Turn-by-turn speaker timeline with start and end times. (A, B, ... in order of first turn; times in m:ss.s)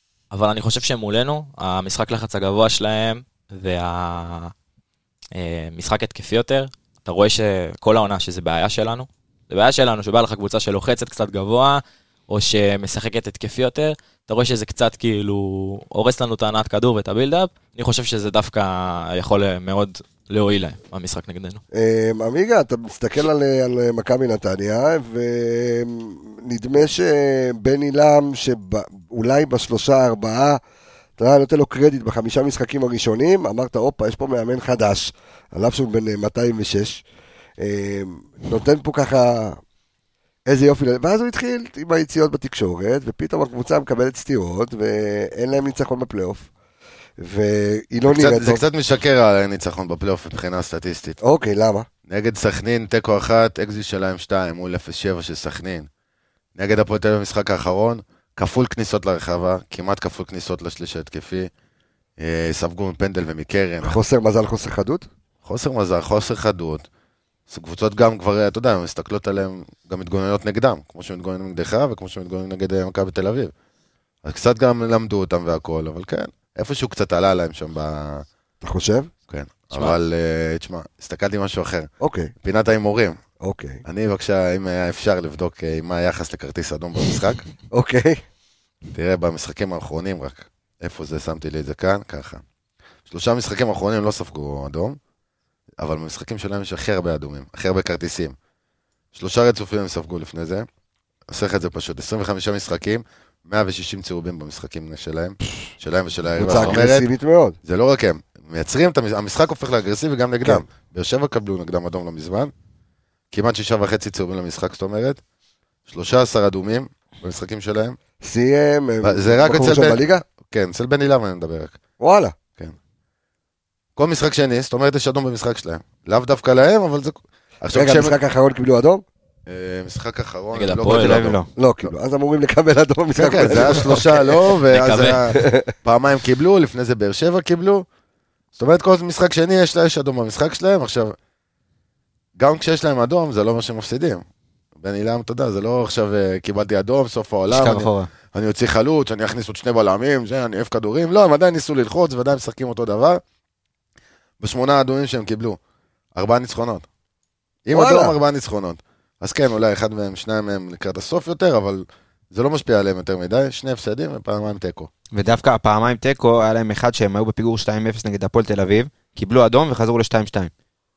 0:00.3-0:04.5 A
0:05.3-0:21.6 A
0:21.7-0:30.6 B
0:31.2-0:37.0 B
0:37.6-0:39.6 B
0:40.5-0:46.5 B
0:47.2-0:48.6 B
0:48.1-0:51.2 C
0:51.2-0:51.9 B
0:52.1-0:55.9 C
0:56.6-1:01.5 C
1:02.2-1:04.0 C
1:03.8-1:05.0 B
1:05.4-1:06.9 C
1:07.5-1:13.5 C
1:14.2-1:18.2 C
1:18.6-1:19.1 B
1:19.3-1:21.9 C
1:19.7-1:20.0 A
1:22.0-1:22.3 B
1:22.4-1:23.2 C
1:23.4-1:23.8 B
1:23.8-1:27.4 C
1:27.7-1:28.2 B
1:28.9-1:32.4 C
1:33.1-1:35.0 C
1:35.8-1:38.3 C
1:39.2-1:40.7 C
1:41.3-1:47.1 C
1:46.4-1:47.6 B
1:46.5-1:46.8 A
1:47.6-1:52.5 C
1:53.3-1:55.2 C
1:55.9-1:58.0 C
1:58.2-2:00.2 B
1:59.0-2:01.8 C
2:02.0-2:02.4 B
2:04.0-2:08.2 C
2:07.7-2:09.0 B
2:09.5-2:11.9 C
2:10.5-2:11.2 A
2:10.9-2:11.5 D
2:11.6-2:14.2 B
2:13.2-2:17.8 C
2:13.7-2:14.0 A
2:14.7-2:15.3 A
2:15.3-2:15.7 B
2:18.6-2:21.2 C
2:22.4-2:24.2 C
2:24.8-2:33.2 C
2:27.5-2:28.1 D
2:34.4-2:35.6 C
2:36.2-2:36.9 C
2:37.7-2:44.9 C
2:37.7-2:38.2 B
2:45.1-2:50.5 D